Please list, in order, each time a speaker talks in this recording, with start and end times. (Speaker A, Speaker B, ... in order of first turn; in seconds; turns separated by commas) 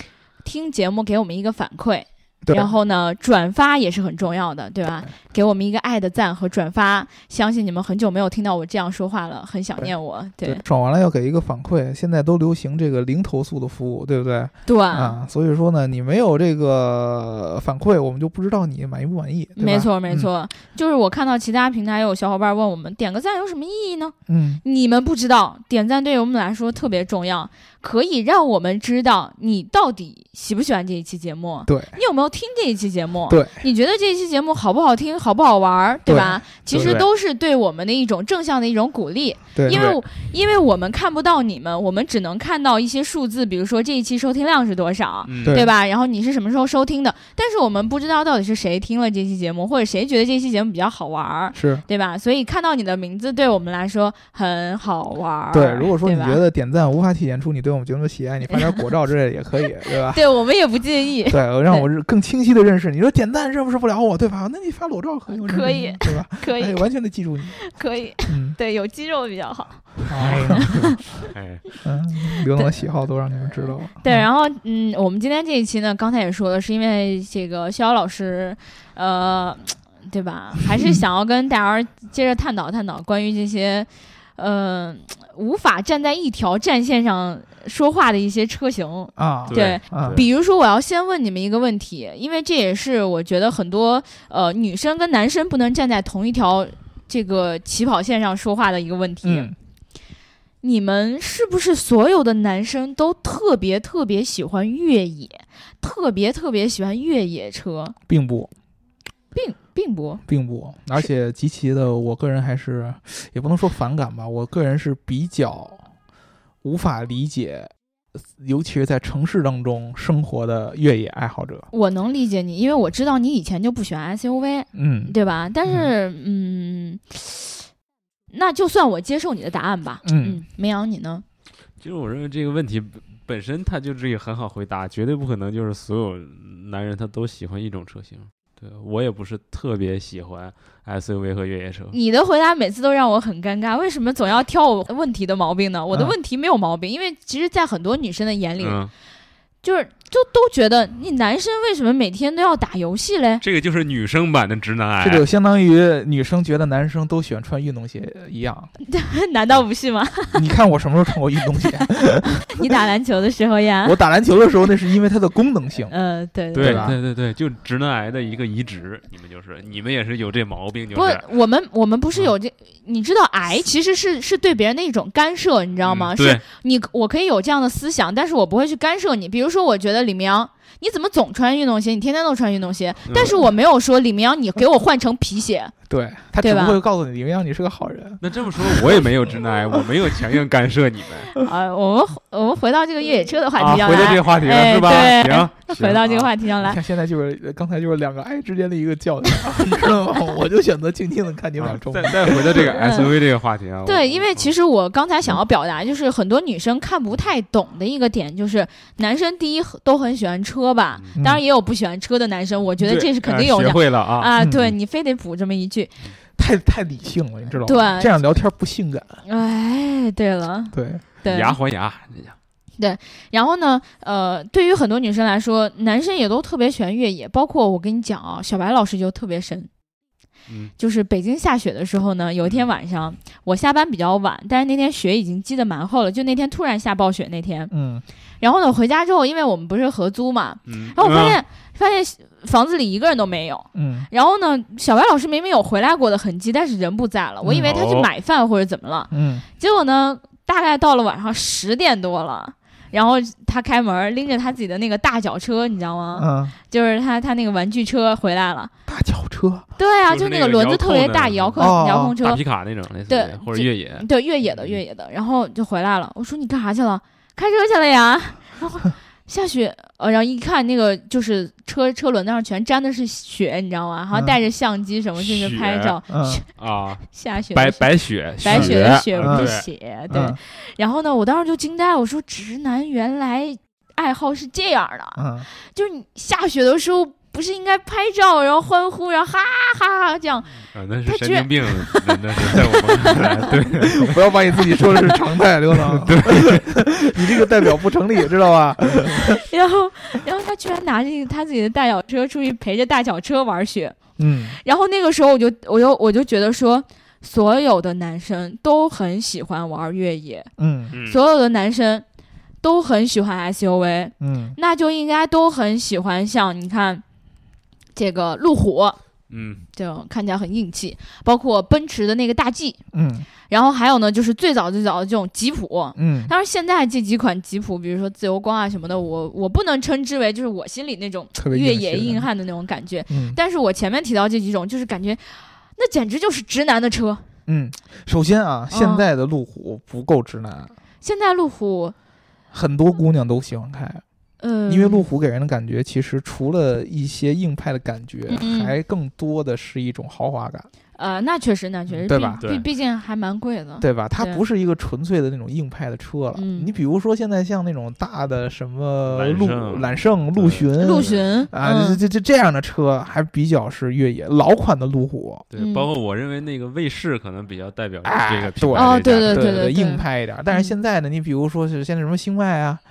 Speaker A: 0.4-10.6, Speaker B: 2.4-2.7, Speaker B: 10.4-20.3, Speaker A: 14.7-15.2, Speaker A: 19.6-56.4, Speaker B: 24.3-24.6, Speaker B: 31.7-31.9, Speaker B: 33.3-33.6, Speaker B: 36.1-37.0, Speaker C: 36.7-37.1, Speaker B: 39.5-39.9, Speaker C: 39.7-40.0, Speaker C: 45.3-45.6, Speaker B: 45.4-45.7, Speaker B: 51.5-51.8, Speaker B: 55.5-60.2, Speaker A: 58.5-58.9, Speaker A: 60.1-61.9, Speaker B: 61.3-67.6, Speaker A: 65.3-66.9, Speaker A: 67.6-71.2, Speaker B: 68.3-68.6, Speaker B: 70.1-70.8, Speaker C: 70.2-71.6, Speaker B: 71.8-74.3, Speaker A: 72.5-72.9, Speaker A: 73.5-99.5, Speaker B: 89.2-90.2, Speaker C: 89.5-90.2, Speaker B: 99.2-99.5, Speaker A: 100.6-108.0, Speaker B: 108.1-108.5, Speaker A: 109.3-110.2, Speaker B: 110.3-115.8, Speaker B: 116.6-117.7, Speaker B: 118.3-121.7, Speaker A: 121.7-127.7, Speaker B: 124.7-125.2, Speaker A: 128.3-131.2, Speaker B: 130.0-130.4, Speaker C: 131.8-142.0, Speaker A: 141.9-148.8, Speaker C: 148.6-148.9, Speaker A: 149.6-153.4, Speaker C: 153.4-155.3, Speaker B: 155.0-158.7, Speaker A: 158.8-160.4, Speaker B: 160.3-162.4, Speaker A: 161.6-164.0, Speaker B: 163.8-165.9, Speaker A: 165.9-166.9, Speaker B: 166.5-167.0, Speaker C: 166.6-171.3, Speaker A: 170.9-185.7, Speaker C: 175.9-176.4, Speaker C: 183.1-183.4, Speaker B: 185.9-189.8, Speaker A: 186.4-186.8, Speaker C: 188.2-191.3, Speaker A: 191.3-196.8, Speaker C: 193.6-196.3, Speaker B: 196.6-202.7, Speaker C: 201.6-204.5, Speaker A: 202.7-203.1, Speaker A: 203.9-215.9, Speaker B: 211.2-211.4, Speaker C: 212.8-214.3, Speaker B: 214.4-214.8, Speaker B: 216.4-219.2, Speaker A: 217.6-218.1, Speaker A: 219.2-221.6, Speaker B: 220.7-221.0, Speaker C: 221.2-222.3, Speaker A: 222.8-229.7, Speaker A: 230.8-237.7, Speaker B: 237.7-238.0, Speaker A: 238.4-258.7, Speaker C: 240.7-241.4, Speaker B: 243.8-244.1, Speaker B: 247.4-247.8, Speaker C: 247.6-248.1, Speaker B: 249.1-249.4, Speaker B: 256.2-256.6, Speaker B: 258.9-259.7, Speaker A: 259.8-262.4, Speaker C: 260.1-264.8, Speaker B: 261.6-262.2, Speaker A: 263.1-276.4, Speaker C: 275.2-276.0, Speaker B: 276.1-276.4, Speaker C: 276.6-279.7, Speaker A: 277.1-293.6, Speaker B: 278.5-279.5, Speaker B: 280.1-280.4, Speaker B: 285.2-285.5, Speaker C: 290.7-294.9, Speaker B: 294.0-299.4, Speaker C: 295.7-296.9, Speaker A: 299.3-304.0, Speaker B: 304.2-304.6, Speaker A: 304.6-312.1, Speaker B: 310.6-310.9, Speaker C: 310.9-311.2, Speaker A: 312.6-317.0, Speaker B: 314.2-314.6, Speaker A: 317.9-319.0, Speaker C: 319.3-319.6, Speaker A: 319.8-322.8, Speaker B: 322.9-323.3, Speaker A: 323.5-337.2, Speaker B: 326.0-326.3, Speaker B: 331.4-332.3, Speaker B: 333.1-333.4, Speaker B: 337.5-340.7, Speaker A: 338.7-339.1, Speaker A: 341.0-341.9, Speaker B: 342.5-344.0, Speaker A: 344.4-345.1, Speaker B: 344.7-350.7, Speaker A: 348.3-348.7, Speaker A: 351.0-354.4, Speaker B: 352.0-352.4, Speaker C: 352.4-352.7, Speaker B: 353.8-365.5, Speaker A: 356.3-356.7, Speaker C: 359.1-361.2, Speaker A: 360.8-362.0, Speaker C: 365.5-369.7, Speaker A: 365.6-365.9, Speaker B: 368.0-372.8, Speaker A: 368.8-370.8